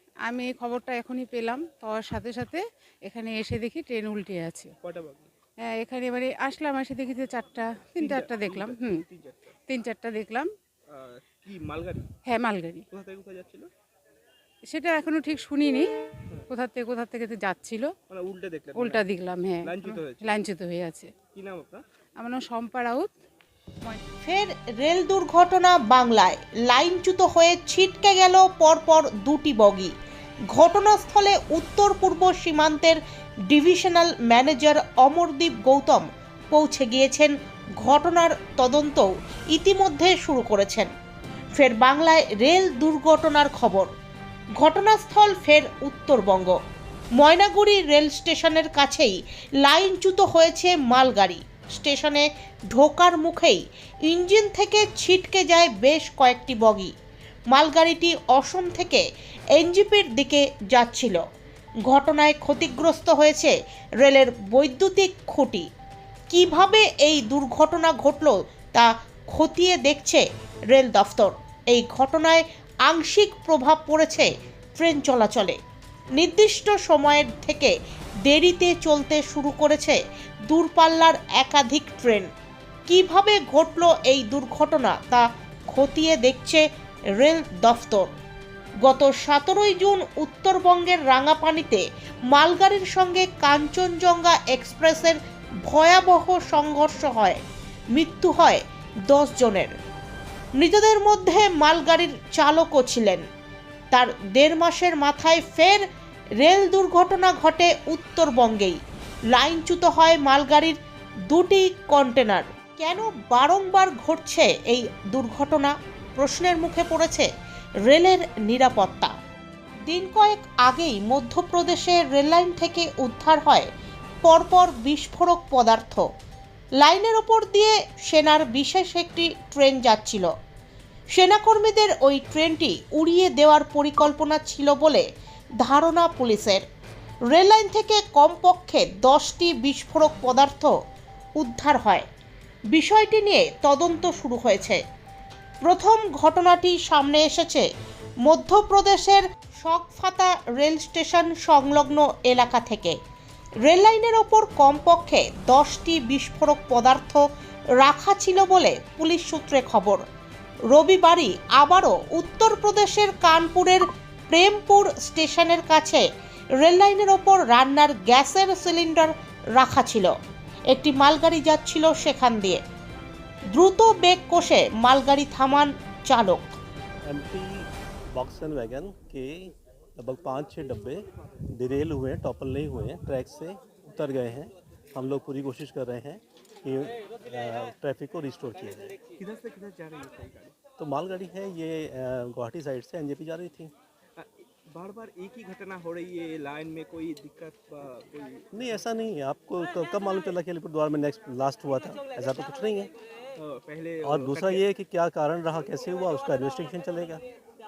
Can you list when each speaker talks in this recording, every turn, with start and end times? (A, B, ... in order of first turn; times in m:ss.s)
0:00.2-0:04.7 A
0:04.8-0:05.3 B
0:05.6-0:09.0 A
0:08.0-0:09.6 B
0:09.7-0:10.5 A
0:10.9-0:12.1 B
0:12.2-0:12.8 A
0:12.9-0:13.7 B
0:14.7-0:15.9 A
0:16.5-0:17.9 A
0:18.1-0:19.1 B
0:18.8-0:21.1 A
0:19.6-0:20.3 B
0:21.3-0:21.8 B
0:22.2-0:23.1 A
0:24.2-0:29.9 C
0:30.5-0:40.9 C
0:41.6-0:43.9 C
0:44.6-0:46.6 C
0:47.2-0:56.9 C
0:57.5-1:01.2 C
1:01.9-1:05.7 C
1:06.3-1:15.6 C
1:16.1-1:17.7 C
1:18.2-1:22.3 C
1:22.9-1:26.6 C
1:27.2-1:28.1 C
1:28.8-1:39.7 C
1:40.6-1:43.2 C
1:43.9-1:45.9 C
1:46.4-1:48.8 C
1:49.3-1:50.8 C
1:51.3-1:57.3 C
1:57.9-1:59.1 C
1:59.9-2:03.7 C
2:04.2-2:06.0 C
2:06.8-2:10.3 C
2:11.1-2:15.0 C
2:15.6-2:16.6 C
2:17.3-2:20.7 C
2:21.4-2:22.1 C
2:22.7-2:24.8 C
2:25.6-2:27.7 C
2:28.2-2:33.0 C
2:33.6-2:37.2 C
2:37.8-2:40.0 C
2:40.7-2:46.0 C
2:46.6-2:50.1 C
2:50.7-2:52.6 C
2:53.5-2:56.5 C
2:57.0-3:09.0 D
3:09.2-3:10.6 B
3:10.8-3:13.7 D
3:14.2-3:18.8 B
3:18.5-3:22.9 D
3:23.4-3:24.6 B
3:24.0-3:27.2 D